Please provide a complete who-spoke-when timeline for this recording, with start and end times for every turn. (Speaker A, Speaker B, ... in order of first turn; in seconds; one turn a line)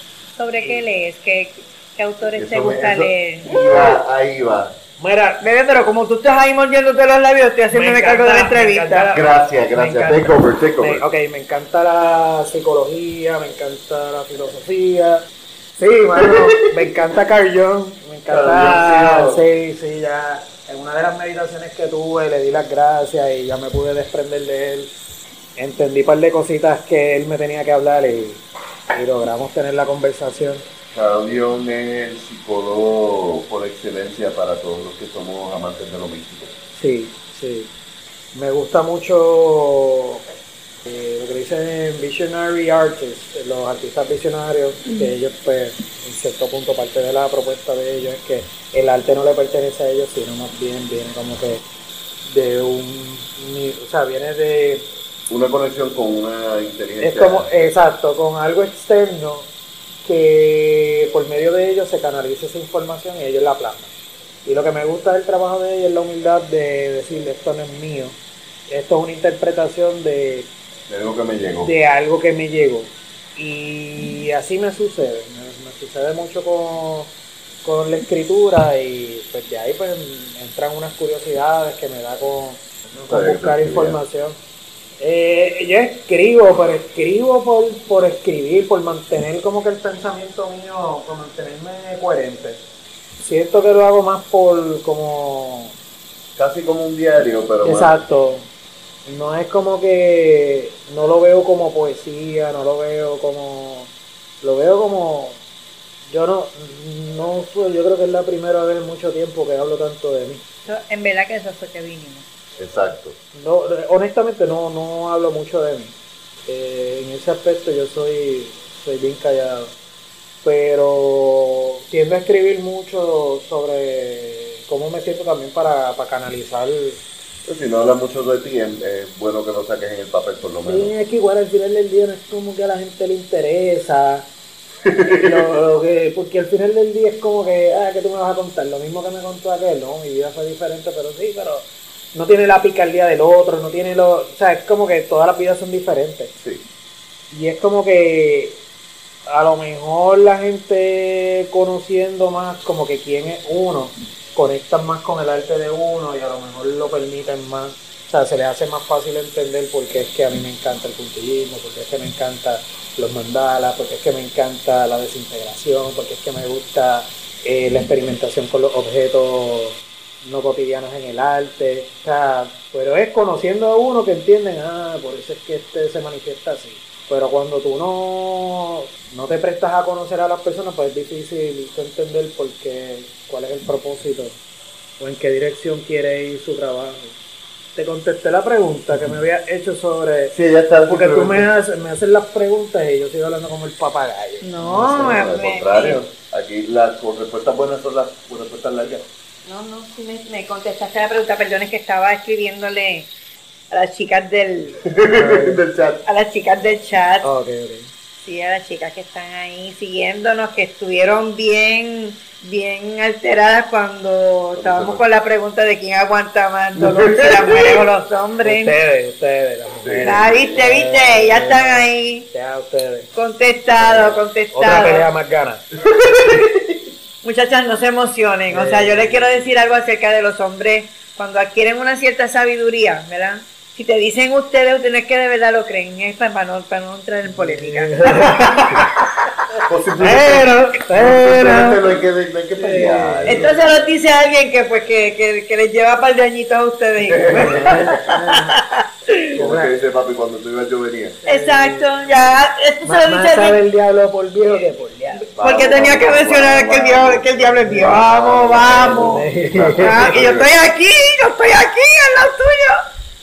Speaker A: 0.3-3.9
Speaker B: 2.3-4.8
Speaker C: 5.0-5.4
Speaker A: 5.4-9.1
Speaker C: 7.7-15.2
Speaker B: 9.1-11.1
Speaker C: 15.8-24.9
Speaker B: 16.2-16.9
Speaker B: 18.3-19.4
Speaker C: 25.6-30.6
Speaker B: 30.9-36.5
Speaker C: 36.8-37.7
Speaker C: 38.3-40.3
Speaker C: 40.8-51.6
Speaker A: 44.9-45.1
Speaker C: 52.2-54.9
Speaker B: 55.3-57.8
Speaker C: 57.0-59.5
Speaker C: 60.0-63.9
Speaker C: 64.4-70.5
Speaker B: 70.9-71.7
Speaker C: 71.6-84.4
Speaker B: 83.1-84.0
Speaker C: 85.0-92.6
Speaker C: 93.2-95.7
Speaker B: 96.3-98.0
Speaker C: 97.6-98.5
Speaker C: 99.0-105.4
Speaker C: 106.1-110.4
Speaker A: 110.7-112.2
Speaker B: 112.6-113.2
Speaker C: 113.3-116.0
Speaker C: 116.5-119.7
Speaker C: 120.4-127.0
Speaker B: 127.4-130.9
Speaker C: 130.7-134.3
Speaker B: 134.8-135.5
Speaker C: 135.1-146.3
Speaker C: 147.3-148.6
Speaker C: 149.3-184.4
Speaker C: 185.0-187.2
Speaker C: 187.7-190.3
Speaker B: 190.3-191.5
Speaker C: 190.9-195.2
Speaker A: 194.4-196.0
Speaker B: 194.7-199.1
Speaker A: 199.4-203.1
Speaker A: 203.7-204.8
Speaker B: 204.8-206.0
Speaker C: 205.1-205.6
Speaker A: 206.1-207.3
Speaker C: 207.2-207.9
Speaker A: 208.2-218.7
Speaker B: 214.5-215.0
Speaker B: 216.8-217.8
Speaker C: 218.4-223.1
Speaker B: 219.8-220.6
Speaker A: 220.0-222.3
Speaker A: 223.2-225.1
Speaker C: 223.8-225.6
Speaker B: 225.8-226.8
Speaker A: 227.2-239.1
Speaker C: 228.5-229.6
Speaker C: 237.3-238.9
Speaker C: 239.6-241.8
Speaker B: 239.7-243.6
Speaker C: 242.6-243.9
Speaker A: 243.3-249.2
Speaker B: 247.0-248.0
Speaker C: 247.3-248.6
Speaker B: 249.3-251.2
Speaker C: 249.3-249.7
Speaker C: 251.2-252.1
Speaker A: 251.2-253.6
Speaker C: 252.8-255.3
Speaker A: 255.3-262.8
Speaker B: 255.3-260.5
Speaker C: 257.7-260.3